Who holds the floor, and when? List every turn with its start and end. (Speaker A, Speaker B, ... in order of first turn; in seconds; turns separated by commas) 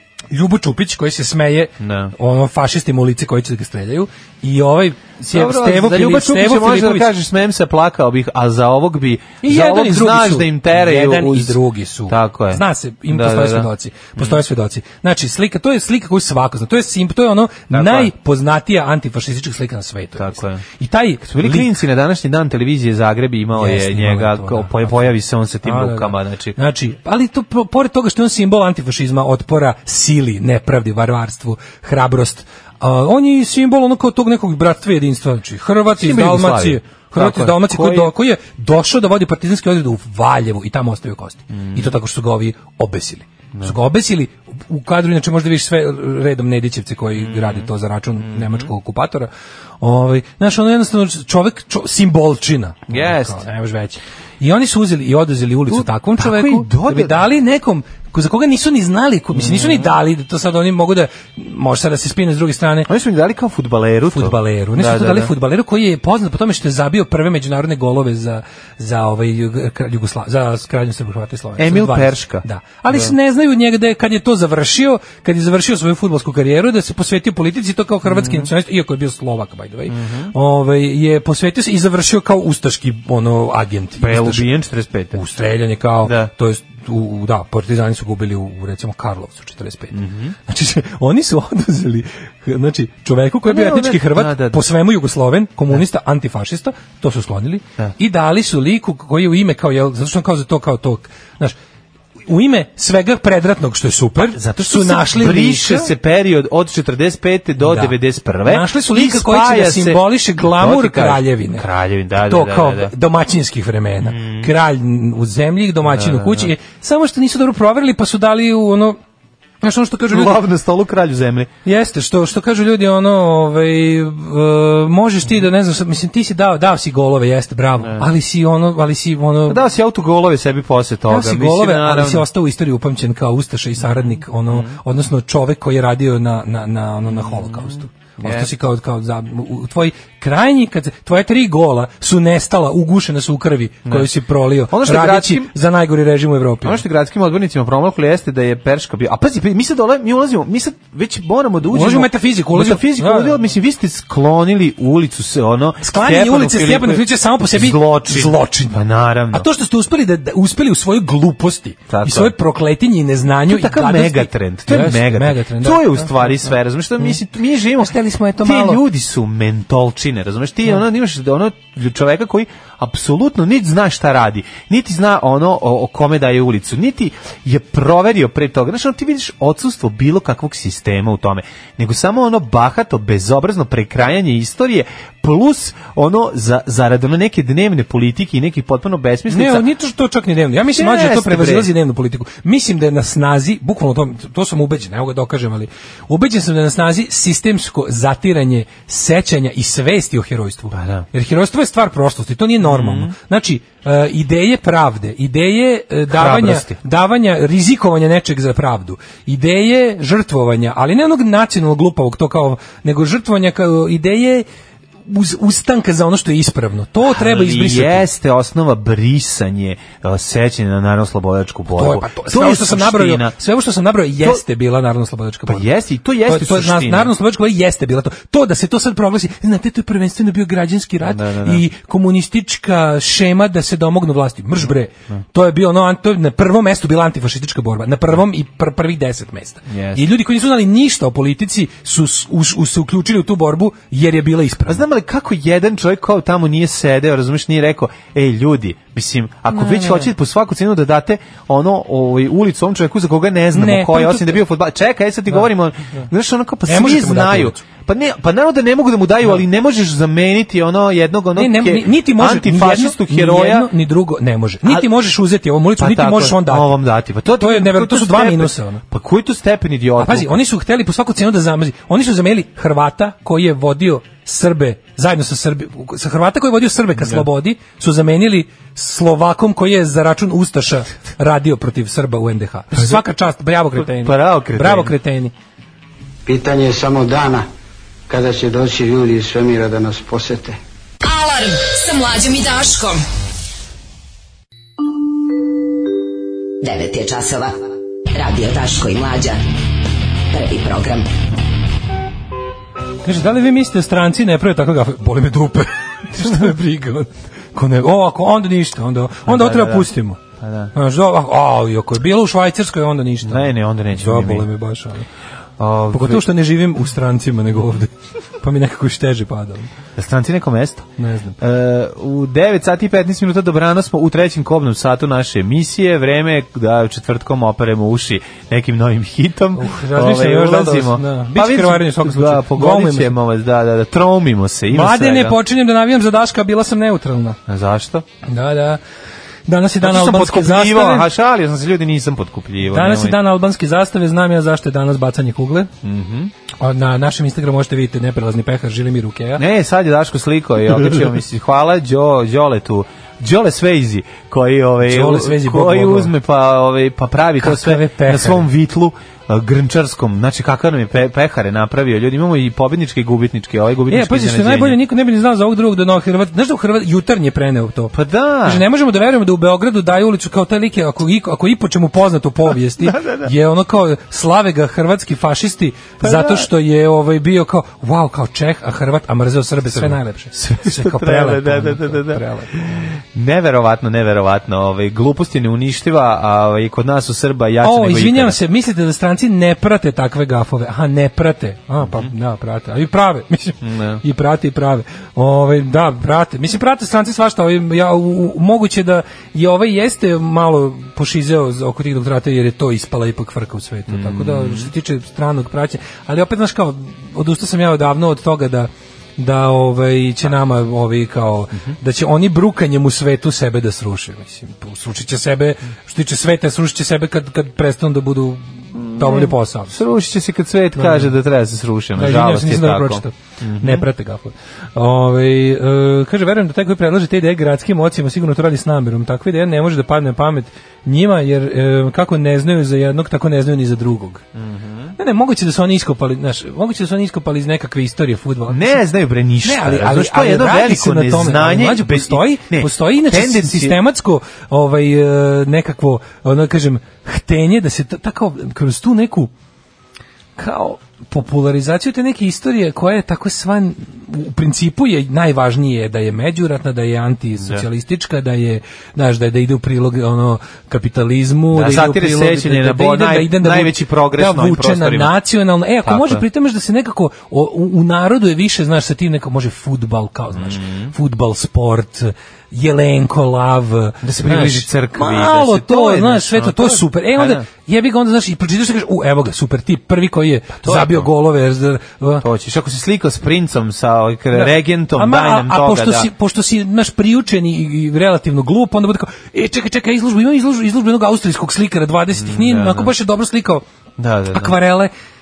Speaker A: 0.3-7.1, Speaker B: 1.8-2.1, Speaker B: 5.3-14.4, Speaker A: 9.4-21.7, Speaker B: 17.7-18.1, Speaker B: 20.2-20.6, Speaker B: 21.2-26.6, Speaker A: 23.6-49.3, Speaker B: 35.9-38.1, Speaker B: 41.5-41.9, Speaker B: 47.2-47.7, Speaker B: 48.2-48.7, Speaker A: 49.8-62.9, Speaker B: 52.9-53.4, Speaker B: 55.7-57.2, Speaker B: 59.3-60.0, Speaker B: 62.9-65.3, Speaker A: 64.1-84.5, Speaker B: 71.6-73.1, Speaker B: 78.1-78.5, Speaker B: 79.9-80.3, Speaker B: 84.0-85.2, Speaker A: 85.1-101.6, Speaker B: 86.0-86.3, Speaker B: 89.9-90.3, Speaker B: 93.5-94.7, Speaker A: 102.3-105.9, Speaker B: 104.2-112.9, Speaker A: 107.6-111.7, Speaker A: 112.2-119.0, Speaker B: 114.0-114.5, Speaker B: 115.8-116.5, Speaker A: 119.6-120.4, Speaker B: 120.1-121.5, Speaker A: 121.7-129.6, Speaker B: 127.8-128.1, Speaker B: 129.5-132.3, Speaker A: 131.1-146.8, Speaker B: 133.9-134.8, Speaker B: 137.1-138.5, Speaker B: 143.9-144.1, Speaker B: 144.7-145.5, Speaker B: 146.6-159.5, Speaker A: 151.7-153.4, Speaker A: 155.8-167.1, Speaker B: 161.9-162.3, Speaker B: 163.5-189.7, Speaker A: 167.8-168.8, Speaker A: 189.3-214.5, Speaker B: 190.7-191.7, Speaker B: 200.7-201.1, Speaker B: 202.6-203.2, Speaker B: 206.1-206.8, Speaker A: 215.1-218.1, Speaker B: 217.0-223.3, Speaker A: 221.7-225.7, Speaker B: 225.5-227.1, Speaker A: 226.3-244.8, Speaker B: 231.0-231.6, Speaker B: 239.7-240.1, Speaker B: 244.7-263.7, Speaker A: 249.5-250.1, Speaker A: 253.5-254.4, Speaker A: 256.7-257.6, Speaker A: 261.4-266.8, Speaker B: 265.8-270.4, Speaker A: 267.4-268.8, Speaker A: 270.0-285.3, Speaker B: 277.0-277.3, Speaker B: 282.8-283.0, Speaker B: 283.8-284.9, Speaker C: 286.3-287.5, Speaker C: 288.1-290.6, Speaker D: 291.0-293.0, Speaker E: 296.6-297.6, Speaker E: 298.1-299.4, Speaker E: 300.3-301.1, Speaker A: 303.0-310.2, Speaker B: 309.3-310.7, Speaker A: 310.7-315.1, Speaker B: 313.2-314.5, Speaker B: 315.6-316.2, Speaker A: 315.9-319.7, Speaker B: 320.0-335.4, Speaker A: 321.0-321.4, Speaker A: 329.6-333.2, Speaker A: 334.7-337.4, Speaker B: 337.5-338.1, Speaker A: 338.2-338.8, Speaker A: 339.5-341.1, Speaker B: 339.8-343.2, Speaker A: 342.7-345.7, Speaker B: 345.8-346.3, Speaker A: 346.6-349.4, Speaker B: 349.4-364.8, Speaker A: 354.9-356.1, Speaker A: 357.4-358.5, Speaker A: 363.9-382.6, Speaker B: 367.9-368.6, Speaker B: 372.8-373.3, Speaker B: 376.0-376.5, Speaker B: 379.7-388.4, Speaker A: 387.6-419.8, Speaker B: 391.8-392.1, Speaker B: 393.6-394.0, Speaker B: 403.9-404.7, Speaker B: 418.8-423.9, Speaker A: 420.8-421.1, Speaker A: 421.9-434.2, Speaker B: 434.4-434.9, Speaker A: 435.0-438.8, Speaker B: 438.5-443.8, Speaker A: 439.4-449.3, Speaker A: 450.4-482.3, Speaker B: 457.4-457.6, Speaker B: 461.5-465.2, Speaker B: 465.8-466.2, Speaker B: 470.3-470.9, Speaker B: 474.0-477.4, Speaker B: 480.6-481.1, Speaker B: 482.2-486.1, Speaker A: 484.3-493.6, Speaker B: 492.1-492.9, Speaker B: 494.0-494.6, Speaker A: 494.3-494.9